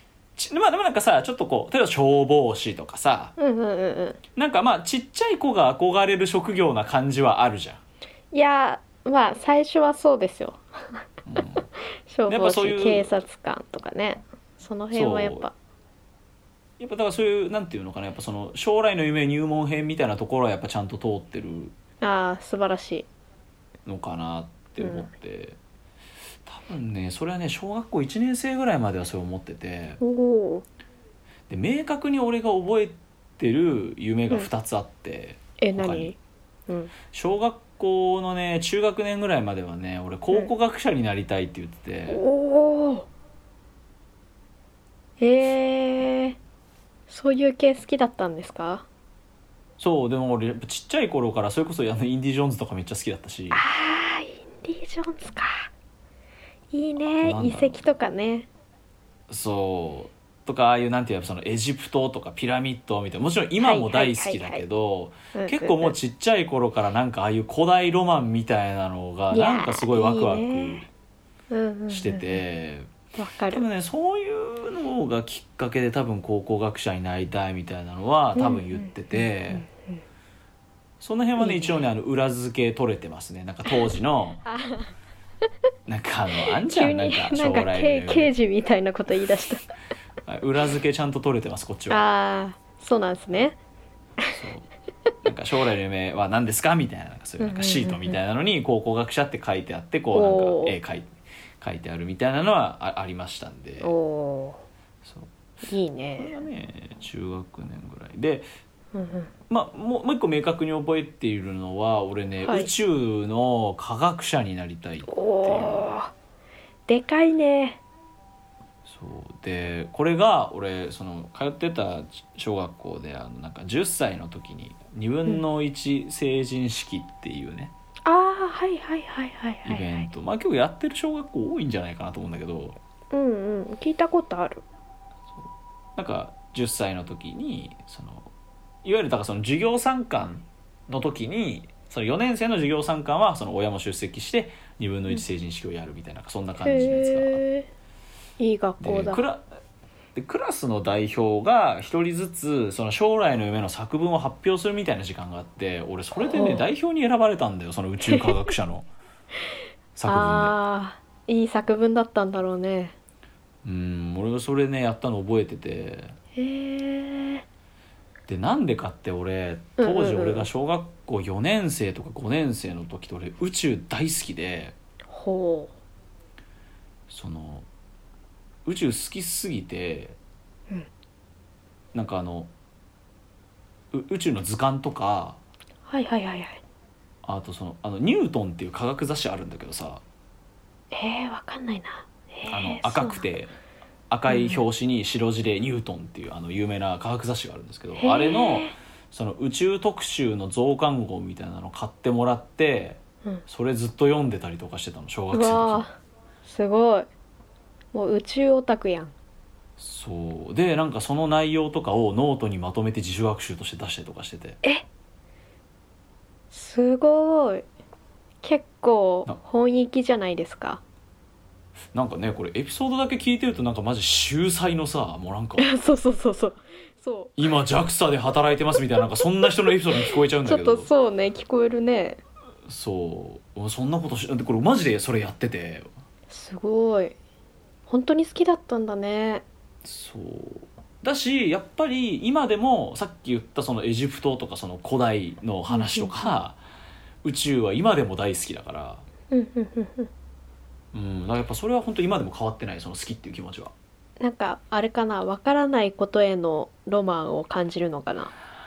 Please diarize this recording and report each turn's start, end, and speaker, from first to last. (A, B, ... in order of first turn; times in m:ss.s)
0:00.4-0:03.3 A
0:03.4-0:04.2 B
0:04.3-0:07.8 A
0:08.3-0:11.0 B
0:11.2-0:11.6 A
0:11.6-0:15.5 B
0:12.3-0:13.2 A
0:14.9-0:15.5 A
0:16.8-0:21.7 A
0:22.0-0:23.1 B
0:23.8-0:25.6 A
0:24.8-0:25.1 B
0:26.4-0:30.0 A
0:30.0-0:30.6 B
0:31.5-0:36.1 A
0:35.6-0:36.2 B
0:37.1-0:42.2 A
0:42.1-0:43.1 B
0:45.2-0:46.4 B
0:47.1-0:48.8 B
0:49.8-0:53.6 A
0:53.5-0:55.7 B
0:56.7-0:58.5 B
0:57.2-0:57.8 A
0:59.3-1:10.9 A
1:03.6-1:04.6 B
1:05.3-1:05.9 B
1:09.3-1:10.8 B
1:11.5-1:12.4 B
1:11.9-1:12.9 A
1:13.1-1:13.6 B
1:13.5-1:19.6 A
1:18.4-1:20.0 B
1:21.0-1:24.4 A
1:21.4-1:21.8 B
1:24.4-1:24.9 B
1:25.9-1:28.3 A
1:26.4-1:29.6 B
1:30.2-1:32.0 A
1:31.9-1:33.6 B
1:34.3-1:34.7 A
1:35.2-1:43.9 A
1:37.4-1:38.2 B
1:40.1-1:40.8 B
1:43.8-1:44.6 B
1:45.0-1:45.3 A
1:45.6-1:46.4 B
1:46.2-1:48.4 A
1:48.9-1:49.3 B
1:49.5-1:55.8 A
1:52.4-1:52.7 B
1:55.1-1:56.1 B
1:56.9-1:57.8 B
1:58.8-2:07.7 A
2:08.0-2:10.1 B
2:09.6-2:12.8 A
2:13.1-2:14.6 B
2:15.3-2:18.3 A
2:18.8-2:27.4 A
2:26.6-2:27.7 B
2:28.4-2:29.2 B
2:28.8-2:29.5 A
2:30.1-2:38.9 A
2:36.1-2:36.6 B
2:38.1-2:38.4 B
2:39.9-2:40.6 A
2:40.0-2:42.9 B
2:43.6-2:46.2 A
2:46.3-2:47.4 B
2:48.3-2:54.8 A
2:49.8-2:50.5 B
2:55.1-2:55.7 B
2:57.1-2:57.7 A
2:58.6-3:00.2 A
3:01.9-3:02.5 A
3:03.9-3:05.4 A
3:05.9-3:06.6 B
3:07.2-3:10.0 A
3:10.9-3:13.2 B
3:12.5-3:13.5 A
3:14.1-3:25.8 A
3:14.3-3:14.6 B
3:18.0-3:18.7 B
3:25.3-3:27.1 B
3:27.9-3:29.1 B
3:29.8-3:34.6 A
3:36.5-3:37.6 B
3:38.4-3:40.8 B
3:41.9-3:45.7 A
3:45.6-3:47.4 B
3:47.4-3:50.9 A
3:49.0-3:49.4 B
3:50.0-3:52.2 B
3:52.7-3:55.9 A
3:56.3-3:57.2 B
3:57.9-3:59.4 B
3:59.8-4:06.6 A
4:05.7-4:06.3 B
4:07.2-4:09.0 A
4:09.3-4:10.1 B
4:10.9-4:13.7 A
4:14.2-4:18.3 B